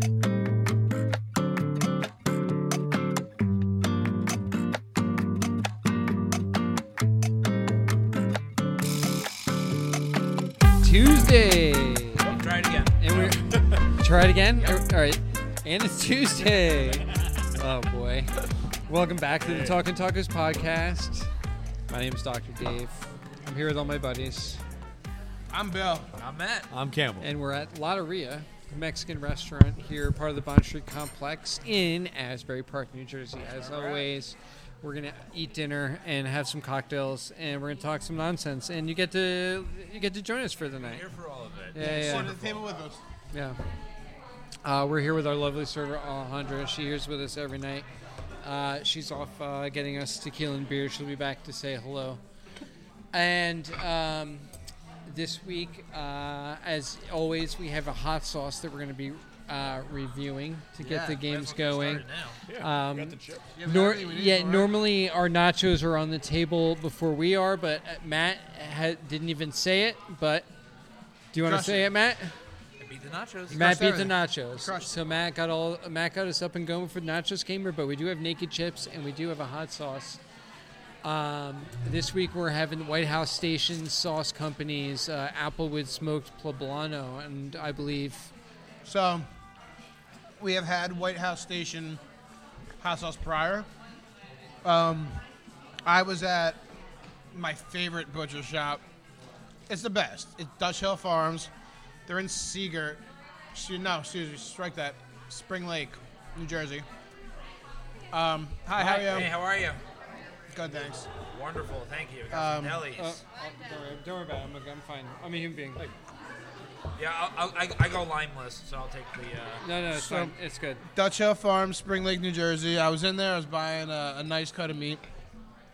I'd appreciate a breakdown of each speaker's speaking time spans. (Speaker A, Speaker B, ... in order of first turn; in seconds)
Speaker A: 10.8-12.3, 13.0-18.4, 18.9-21.3, 21.9-24.6, 27.2-41.1, 41.7-42.3, 43.3-43.6, 44.6-47.9, 48.4-52.2, 53.1-54.5, 55.0-62.0, 62.6-70.5, 71.3-72.3, 73.5-80.2, 81.0-88.3, 113.0-115.9, 119.6-120.8
Speaker B: 12.2-13.0, 26.2-26.7, 33.4-34.1, 40.8-42.2, 61.2-62.4, 72.8-73.8, 108.7-109.8, 111.3-113.2, 117.0-119.6
Speaker C: 13.1-13.9, 19.4-19.8, 26.7-27.3, 41.9-42.7, 62.5-63.5
Speaker D: 25.5-26.1, 41.8-43.0, 60.8-61.2, 63.5-64.7, 71.4-71.9, 73.5-75.1, 88.8-89.2, 90.4-92.0, 92.8-93.7, 94.6-95.2, 95.8-96.6, 97.3-98.8, 99.7-101.5, 102.1-103.0, 103.5-106.8, 108.1-109.3, 110.5-111.1, 112.3-112.8, 119.9-120.3, 120.9-125.0